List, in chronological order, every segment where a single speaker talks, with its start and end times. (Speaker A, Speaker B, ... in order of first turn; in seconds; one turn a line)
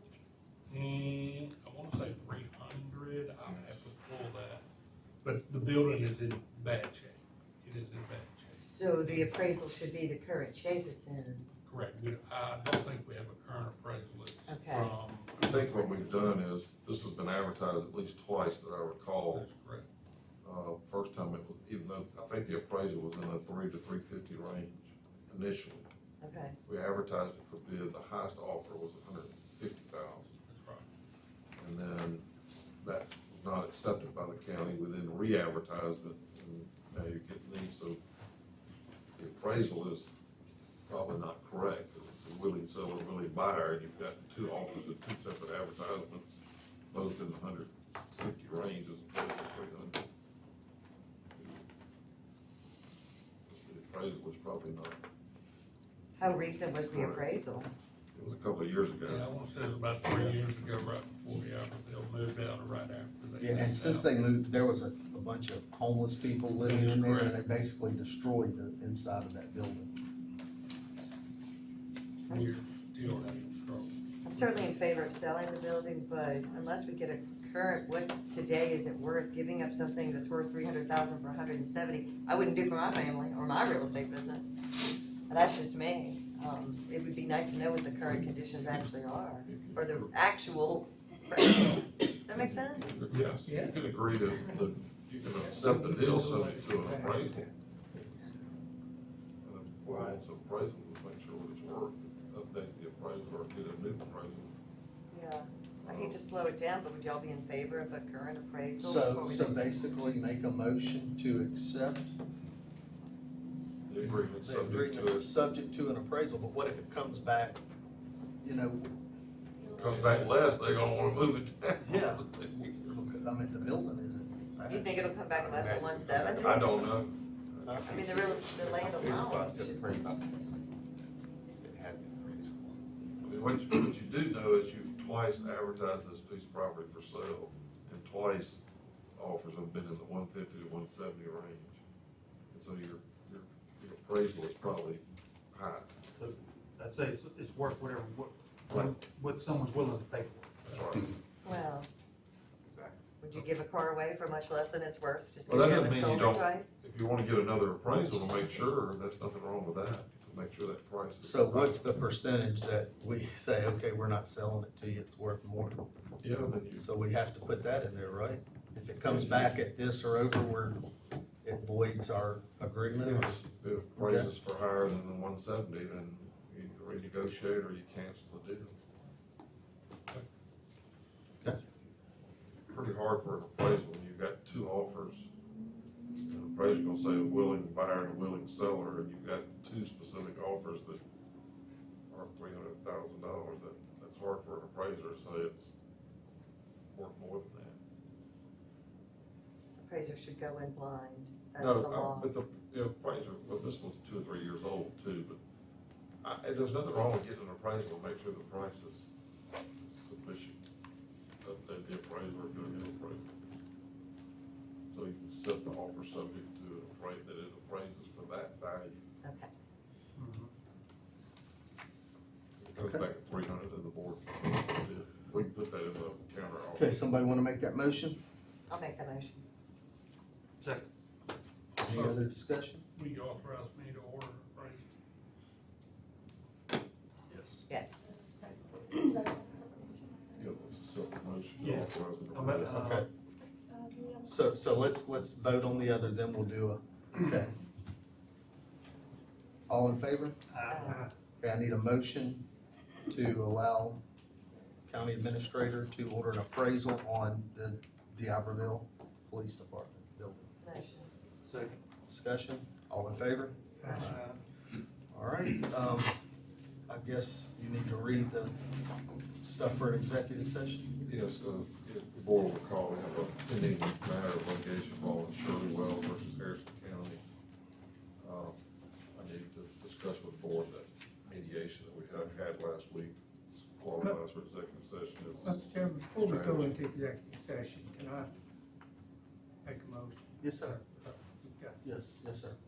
Speaker A: 0.7-4.6
Speaker A: 5.2-9.3
Speaker B: 8.6-11.5
Speaker A: 11.7-16.4
Speaker B: 14.5-14.9
Speaker C: 15.4-19.5
Speaker A: 19.3-19.9
Speaker C: 20.4-25.9
Speaker B: 26.2-26.6
Speaker C: 26.6-30.3
Speaker A: 30.4-30.9
Speaker C: 31.6-32.3
Speaker C: 32.8-38.0
Speaker C: 39.2-40.1
Speaker C: 40.9-46.4
Speaker C: 46.9-50.0
Speaker C: 53.5-55.0
Speaker B: 56.1-57.7
Speaker C: 56.9-57.3
Speaker C: 58.1-59.3
Speaker A: 59.0-64.1
Speaker D: 63.4-69.9
Speaker A: 66.6-67.4
Speaker A: 72.3-74.7
Speaker B: 72.3-72.6
Speaker B: 74.2-84.5
Speaker B: 85.3-92.9
Speaker C: 89.5-90.1
Speaker C: 92.6-97.5
Speaker A: 93.1-93.4
Speaker E: 93.5-93.8
Speaker E: 95.5-97.5
Speaker C: 99.4-104.5
Speaker F: 99.8-100.2
Speaker B: 105.1-109.6
Speaker C: 105.8-106.2
Speaker D: 108.8-112.2
Speaker C: 113.9-115.2
Speaker D: 114.3-117.6
Speaker D: 118.4-118.9
Speaker C: 119.7-122.8
Speaker D: 121.8-126.9
Speaker B: 124.7-126.8
Speaker C: 126.3-128.9
Speaker D: 127.6-130.3
Speaker B: 127.8-130.6
Speaker D: 131.5-132.8
Speaker C: 133.2-138.6
Speaker C: 139.2-141.8
Speaker C: 142.5-145.9
Speaker F: 146.2-150.6
Speaker C: 150.6-151.1
Speaker B: 151.4-151.9
Speaker F: 152.7-152.9
Speaker B: 153.2-156.7
Speaker C: 155.4-161.8
Speaker D: 161.2-165.8
Speaker C: 166.2-166.8
Speaker D: 166.8-170.8
Speaker C: 169.0-169.6
Speaker D: 171.4-173.4
Speaker C: 173.0-178.8
Speaker D: 173.9-174.4
Speaker C: 182.7-185.3
Speaker C: 186.3-191.0
Speaker C: 192.1-195.8
Speaker C: 196.9-197.8
Speaker B: 199.8-202.3
Speaker C: 201.6-205.4
Speaker C: 206.2-209.1
Speaker C: 209.8-210.6
Speaker C: 211.4-213.3
Speaker C: 214.9-219.0
Speaker B: 219.2-219.5
Speaker F: 220.2-220.5
Speaker C: 222.6-227.0
Speaker D: 222.8-223.0
Speaker D: 226.7-228.2
Speaker B: 228.7-229.4
Speaker F: 230.6-230.9
Speaker A: 231.8-232.2
Speaker D: 231.8-232.8
Speaker A: 232.9-234.9
Speaker D: 237.3-237.6
Speaker B: 237.7-238.0
Speaker C: 240.3-242.8
Speaker F: 241.6-243.1
Speaker D: 242.7-243.1
Speaker D: 244.2-247.5
Speaker D: 249.7-250.4
Speaker F: 250.5-251.1
Speaker B: 250.7-251.1
Speaker D: 251.4-252.4
Speaker D: 253.1-254.0
Speaker D: 254.9-260.5
Speaker B: 260.6-261.1
Speaker F: 261.4-261.8
Speaker D: 262.1-264.2
Speaker E: 263.8-264.1
Speaker F: 263.9-264.4
Speaker D: 265.1-266.1
Speaker D: 266.9-268.6
Speaker D: 269.4-270.9
Speaker C: 271.1-277.2
Speaker C: 278.2-278.6
Speaker C: 279.1-285.5
Speaker E: 285.4-288.3
Speaker C: 286.1-286.7
Speaker E: 289.6-291.8
Speaker D: 290.4-290.8
Speaker D: 291.8-292.6